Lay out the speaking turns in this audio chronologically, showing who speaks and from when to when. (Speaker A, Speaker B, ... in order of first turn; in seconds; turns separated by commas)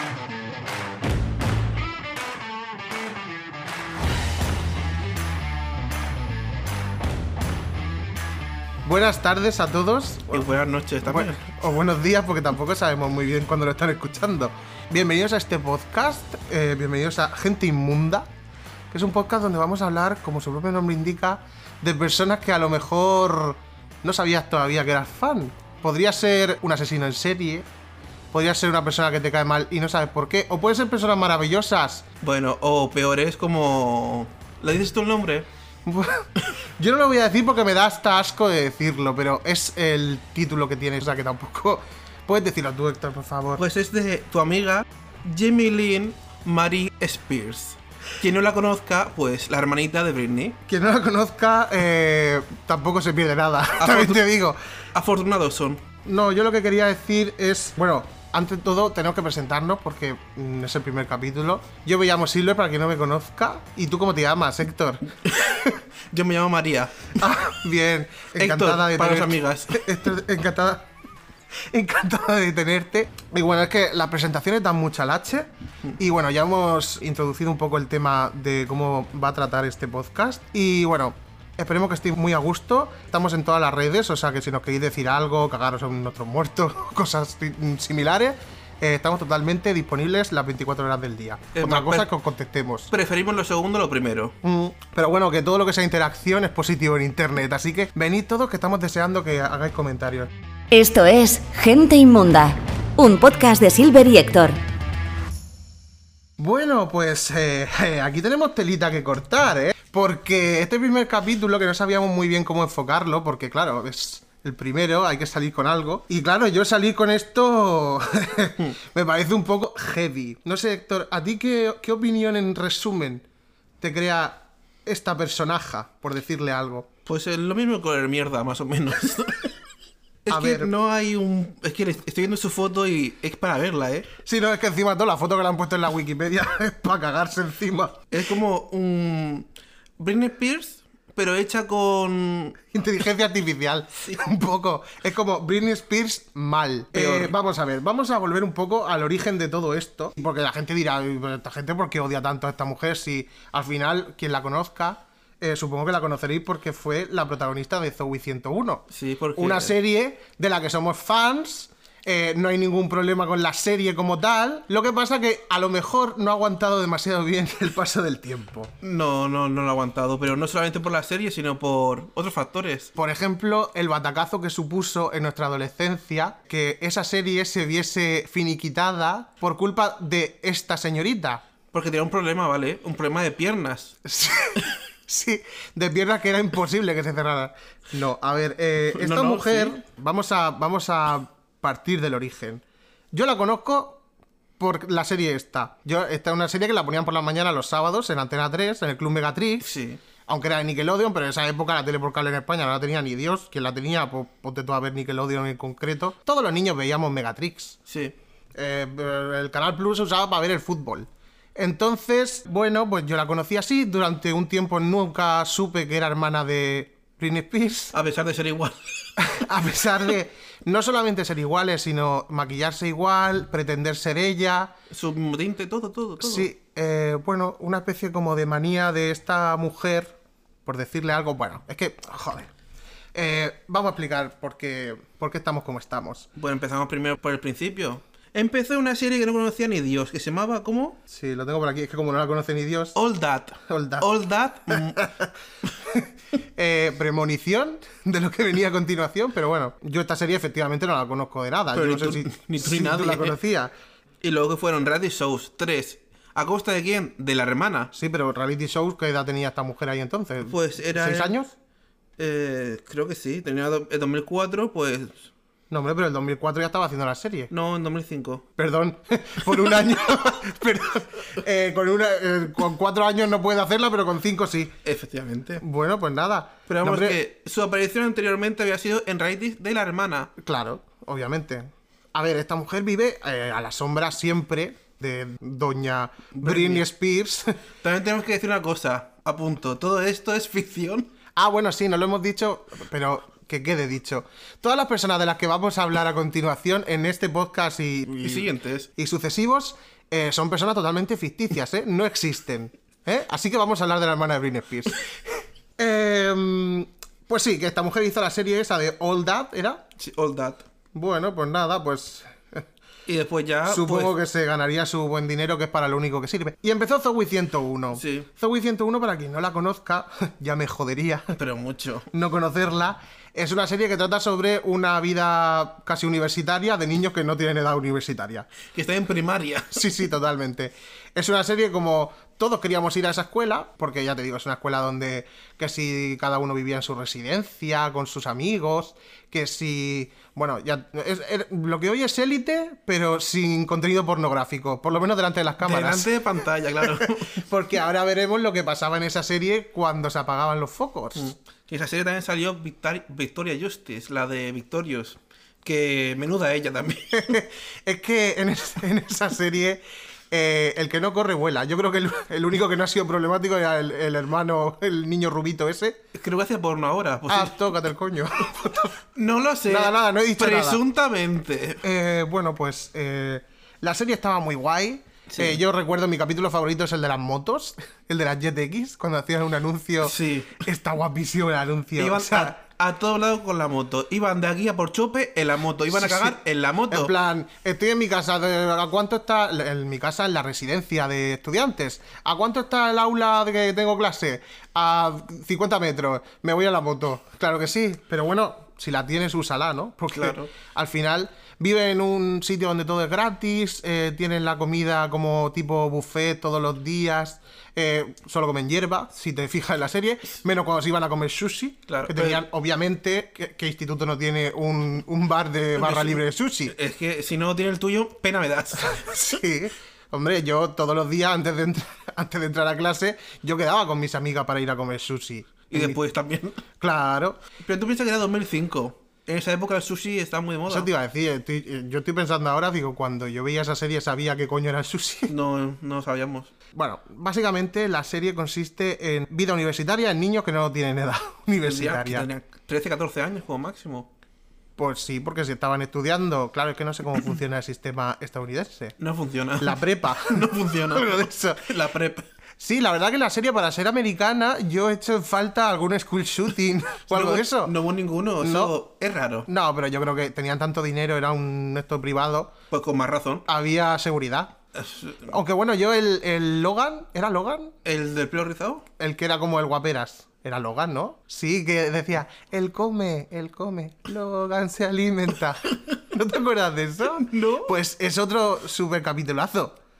Speaker A: 8.8-10.5, Speaker B: 10.3-11.4, Speaker A: 11.1-18.3, Speaker A: 18.9-27.7, Speaker A: 28.3-32.0, Speaker B: 32.2-35.5, Speaker A: 35.8-43.6, Speaker B: 43.6-50.6, Speaker A: 50.7-54.6, Speaker B: 53.8-54.2, Speaker B: 54.9-55.8, Speaker A: 56.0-65.8, Speaker B: 65.2-67.2, Speaker A: 67.2-70.9, Speaker B: 68.4-69.8, Speaker A: 71.7-92.9, Speaker B: 91.5-92.1, Speaker B: 92.9-94.3, Speaker A: 94.4-100.3, Speaker C: 100.7-104.6, Speaker A: 106.4-123.2, Speaker A: 123.8-126.9, Speaker B: 127.0-129.5, Speaker B: 130.2-134.1, Speaker A: 130.3-130.7, Speaker A: 134.2-138.0, Speaker B: 138.1-139.5, Speaker B: 140.0-142.7, Speaker A: 142.7-158.8, Speaker B: 146.9-147.3, Speaker B: 158.9-159.7, Speaker A: 159.3-168.7, Speaker B: 168.8-172.9, Speaker A: 172.9-181.4, Speaker B: 181.7-183.9, Speaker A: 184.0-194.0, Speaker B: 188.9-189.8, Speaker A: 194.6-199.7, Speaker B: 199.6-200.0, Speaker A: 200.3-207.8, Speaker B: 207.9-208.1, Speaker A: 208.5-217.9, Speaker B: 217.9-219.2, Speaker A: 219.2-224.7, Speaker B: 224.9-226.5, Speaker A: 226.2-232.5, Speaker A: 233.1-236.3, Speaker B: 236.4-241.0, Speaker A: 241.1-242.9, Speaker B: 242.9-245.1, Speaker A: 243.6-244.1, Speaker A: 244.7-245.3, Speaker A: 245.8-253.7, Speaker B: 251.7-253.4, Speaker B: 254.2-257.9, Speaker A: 257.9-261.5, Speaker B: 260.4-261.4, Speaker B: 262.2-265.3, Speaker A: 265.7-267.5, Speaker B: 267.5-268.4, Speaker A: 268.6-274.8, Speaker B: 274.8-275.6, Speaker A: 275.6-277.2, Speaker B: 276.7-280.3, Speaker A: 280.4-287.6, Speaker B: 286.3-286.9, Speaker B: 287.8-291.1, Speaker A: 291.3-309.8, Speaker B: 298.2-298.9, Speaker B: 310.0-310.6, Speaker A: 310.9-312.7, Speaker B: 313.1-314.1, Speaker A: 313.6-321.3, Speaker B: 317.9-318.3, Speaker B: 321.3-322.1, Speaker A: 322.1-328.5, Speaker B: 328.7-329.9, Speaker A: 329.7-346.1, Speaker B: 345.6-347.4, Speaker A: 346.8-351.3, Speaker B: 351.1-357.4, Speaker A: 357.1-366.0, Speaker B: 366.1-367.8, Speaker A: 367.3-368.9, Speaker B: 369.1-371.8, Speaker A: 369.6-370.8, Speaker A: 371.8-382.6, Speaker B: 375.3-375.6, Speaker B: 380.0-380.6, Speaker B: 382.0-387.1, Speaker A: 385.9-386.4, Speaker A: 386.9-416.7, Speaker B: 400.1-400.5, Speaker B: 411.9-412.4, Speaker B: 415.8-419.1, Speaker A: 418.8-426.0, Speaker B: 425.7-426.6, Speaker A: 426.8-427.4, Speaker B: 427.6-430.9, Speaker A: 430.7-435.3, Speaker B: 435.3-436.5, Speaker A: 436.7-442.3, Speaker B: 441.6-444.1, Speaker A: 444.8-448.9, Speaker B: 449.0-452.2, Speaker A: 449.6-451.6, Speaker A: 452.6-457.7, Speaker B: 457.1-459.5, Speaker A: 458.4-458.7, Speaker A: 459.5-462.6, Speaker B: 462.7-463.4, Speaker A: 463.5-464.6, Speaker B: 464.7-465.3, Speaker A: 465.2-467.7, Speaker B: 467.8-468.8, Speaker A: 469.0-479.8, Speaker B: 477.1-477.7